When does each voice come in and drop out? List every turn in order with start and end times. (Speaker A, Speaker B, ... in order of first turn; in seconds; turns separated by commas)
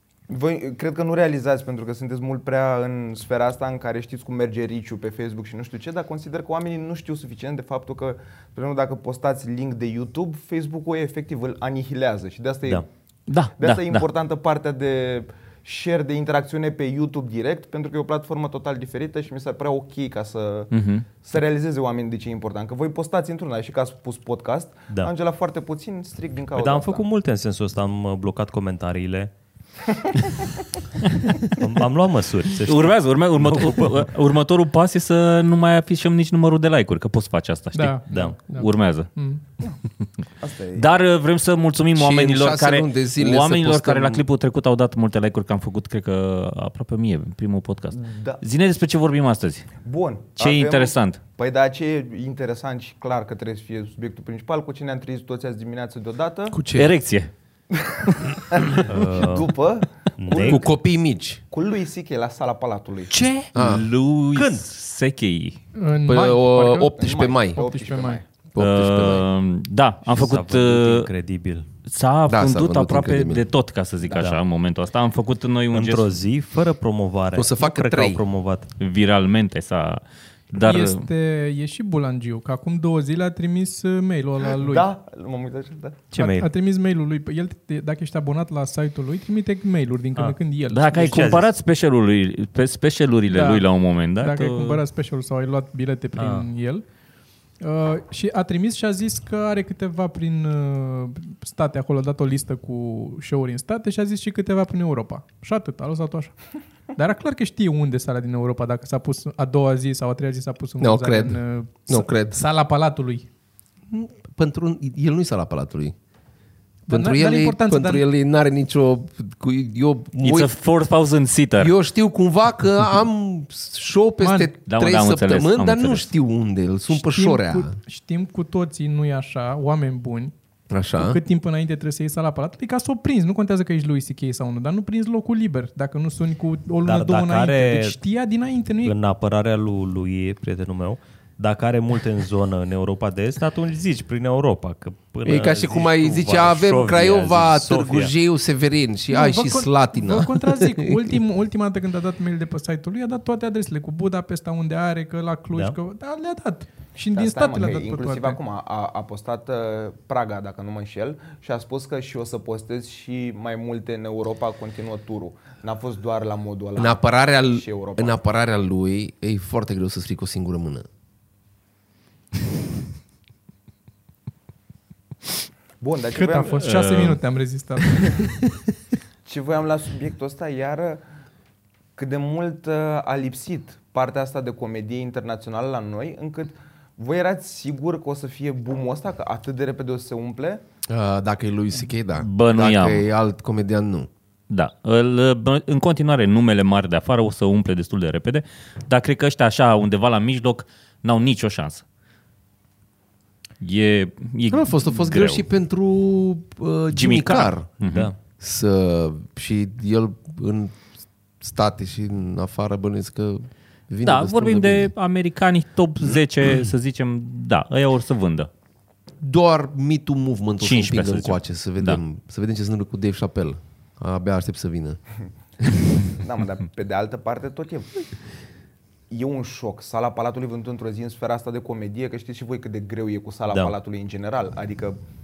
Speaker A: 0.3-12.8, Speaker B: 13.3-14.1, Speaker A: 13.6-27.1, Speaker B: 20.7-21.1, Speaker C: 26.6-29.3, Speaker C: 31.5-34.1, Speaker B: 32.6-39.1, Speaker D: 37.7-39.4, Speaker C: 38.1-38.4, Speaker A: 40.4-41.0, Speaker B: 40.8-49.7, Speaker E: 42.0-44.2, Speaker A: 47.9-48.4, Speaker A: 49.8-56.6, Speaker B: 50.4-51.2, Speaker E: 56.5-56.9, Speaker B: 56.7-57.3, Speaker A: 57.8-60.7, Speaker C: 58.9-59.5, Speaker C: 60.2-60.6, Speaker E: 60.3-61.4, Speaker A: 61.5-63.1, Speaker C: 63.1-63.5, Speaker E: 63.5-63.9, Speaker B: 63.5-65.6, Speaker C: 64.3-64.7, Speaker D: 65.8-68.2, Speaker E: 66.0-67.6, Speaker A: 67.0-68.2, Speaker E: 68.5-69.2, Speaker B: 68.6-71.1, Speaker C: 70.1-71.7, Speaker B: 71.9-76.1, Speaker E: 72.3-73.5, Speaker C: 74.0-74.4, Speaker C: 75.7-78.7, Speaker E: 77.3-78.2, Speaker B: 78.8-81.0, Speaker D: 80.5-84.9, Speaker A: 84.6-86.0, Speaker C: 86.1-86.5, Speaker D: 86.2-91.3, Speaker B: 90.7-94.8, Speaker C: 90.9-91.5, Speaker D: 93.3-93.7, Speaker D: 94.2-96.8, Speaker C: 96.2-96.5, Speaker D: 97.6-106.3, Speaker D: 106.9-113.3, Speaker E: 110.8-112.4, Speaker E: 113.9-115.9, Speaker D: 116.9-118.0, Speaker E: 116.9-120.5, Speaker B: 120.2-121.8, Speaker E: 121.6-127.8, Speaker D: 124.2-124.5, Speaker B: 124.7-126.1, Speaker D: 126.9-130.3, Speaker E: 130.7-131.2, Speaker D: 131.0-138.9, Speaker C: 136.8-138.0, Speaker C: 138.8-148.1, Speaker E: 145.2-151.1, Speaker D: 149.1-158.4, Speaker A: 157.1-168.2, Speaker E: 166.8-170.9, Speaker A: 175.8-176.7, Speaker D: 176.1-178.4, Speaker B: 176.5-177.2, Speaker A: 179.3-181.0, Speaker A: 182.0-190.6, Speaker E: 190.9-194.1, Speaker B: 192.2-193.1, Speaker B: 194.5-201.8, Speaker B: 203.6-205.5, Speaker E: 204.5-207.7, Speaker B: 206.9-208.1, Speaker C: 207.8-208.2, Speaker E: 208.4-210.8, Speaker E: 211.4-214.9, Speaker B: 214.0-218.5, Speaker E: 219.2-225.0, Speaker B: 220.6-222.0, Speaker A: 226.1-227.9, Speaker A: 229.1-235.0